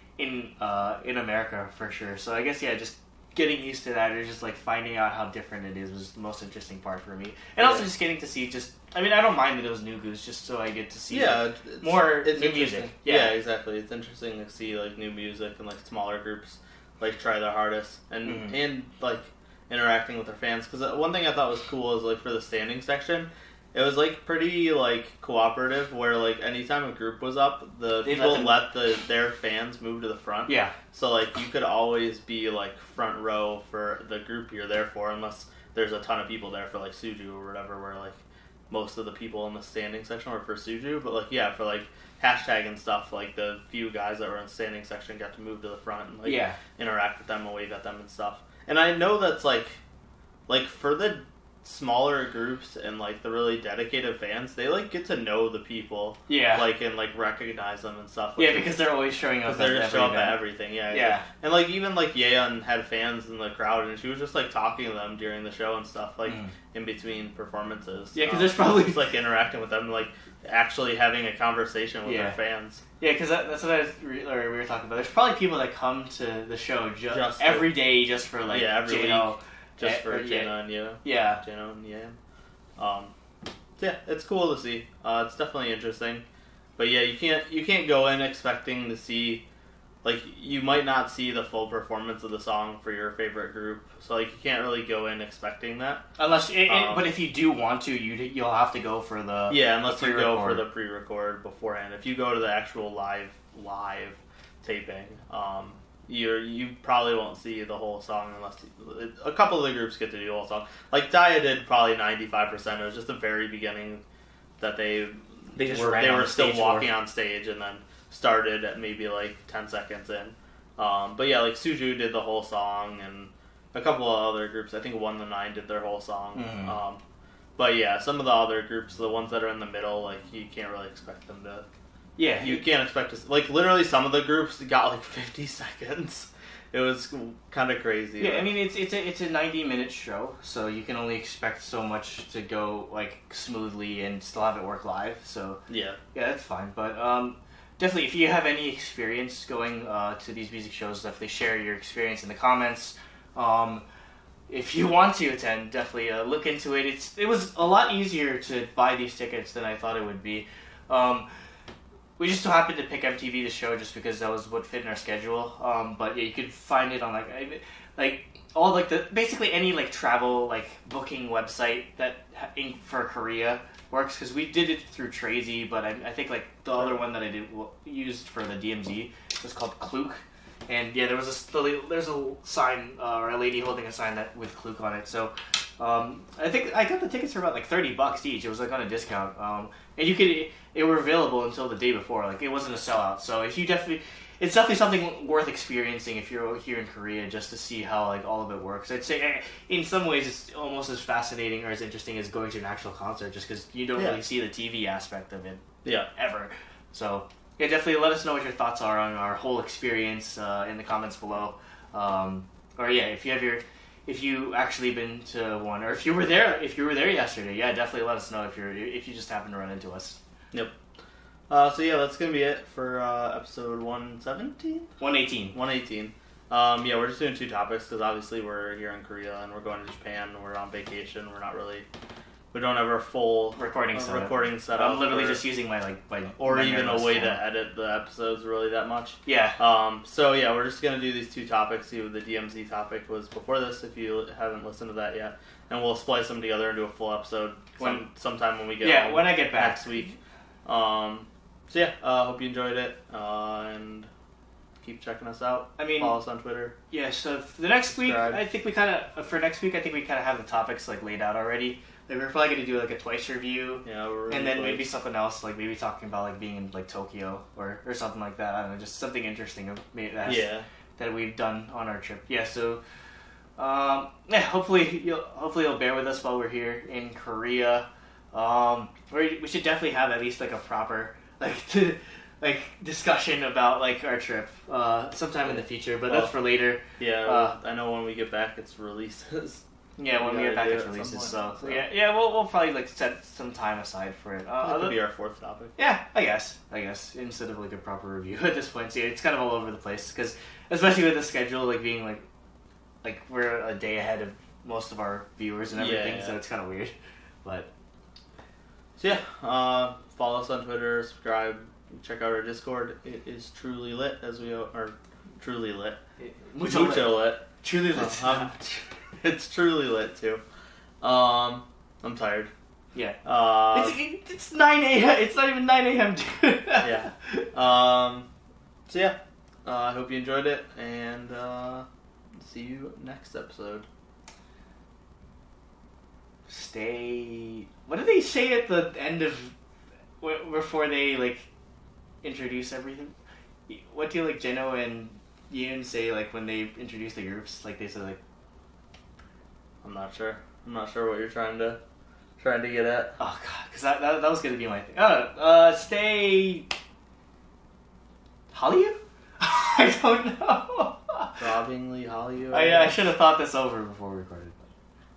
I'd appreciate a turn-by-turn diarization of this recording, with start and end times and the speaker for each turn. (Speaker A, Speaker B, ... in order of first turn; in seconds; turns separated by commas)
Speaker A: 0.2-13.3, Speaker B: 7.6-7.9, Speaker B: 11.1-38.2, Speaker A: 18.2-18.6, Speaker A: 28.0-28.6, Speaker A: 30.5-30.7, Speaker B: 38.7-49.8, Speaker A: 46.2-46.6, Speaker B: 50.5-58.8, Speaker A: 56.3-56.7, Speaker A: 58.4-61.3, Speaker B: 59.5-72.8, Speaker A: 66.3-66.5, Speaker A: 68.2-69.1, Speaker A: 72.0-72.4, Speaker A: 73.0-81.4, Speaker B: 77.1-77.8, Speaker B: 78.5-82.2, Speaker B: 82.8-83.1, Speaker B: 83.8-86.2, Speaker B: 86.8-89.4, Speaker B: 90.0-96.1, Speaker A: 96.2-100.7, Speaker B: 96.7-97.1, Speaker B: 99.5-114.0, Speaker B: 114.6-127.0, Speaker A: 115.5-116.9, Speaker A: 126.3-126.8, Speaker B: 127.6-131.7, Speaker A: 132.2-132.6, Speaker B: 132.4-138.5, Speaker A: 138.2-145.6, Speaker B: 145.7-146.0, Speaker A: 146.1-153.8, Speaker A: 154.5-161.3, Speaker A: 162.2-220.2, Speaker B: 203.9-204.2, Speaker B: 205.8-206.1, Speaker B: 221.5-224.9, Speaker A: 225.0-225.6, Speaker B: 225.5-231.9, Speaker B: 232.5-235.4, Speaker A: 233.6-237.4, Speaker B: 236.4-254.1, Speaker A: 239.3-239.6, Speaker A: 247.8-248.1, Speaker A: 248.8-249.9, Speaker B: 254.8-256.8, Speaker A: 255.8-256.2, Speaker A: 256.9-272.8, Speaker B: 257.9-258.4, Speaker B: 263.8-264.9, Speaker B: 270.2-270.7, Speaker A: 273.6-287.6, Speaker B: 285.5-286.3, Speaker B: 287.0-289.6, Speaker A: 290.0-295.0, Speaker B: 290.2-291.9, Speaker B: 294.6-295.8, Speaker A: 295.8-302.2, Speaker A: 303.0-306.9, Speaker B: 305.8-306.4, Speaker A: 307.4-307.7, Speaker B: 309.0-316.0, Speaker A: 316.2-318.5, Speaker B: 316.6-320.4, Speaker B: 321.0-322.5, Speaker B: 323.2-324.0, Speaker A: 323.7-327.4, Speaker B: 326.8-328.3, Speaker B: 328.9-331.9, Speaker B: 332.4-333.9, Speaker A: 336.5-339.5, Speaker A: 340.2-341.4, Speaker A: 342.2-343.1, Speaker A: 343.7-348.2, Speaker B: 349.8-351.8, Speaker B: 352.4-353.2, Speaker A: 353.2-356.8, Speaker A: 358.5-361.4, Speaker B: 361.4-363.1, Speaker A: 362.5-364.7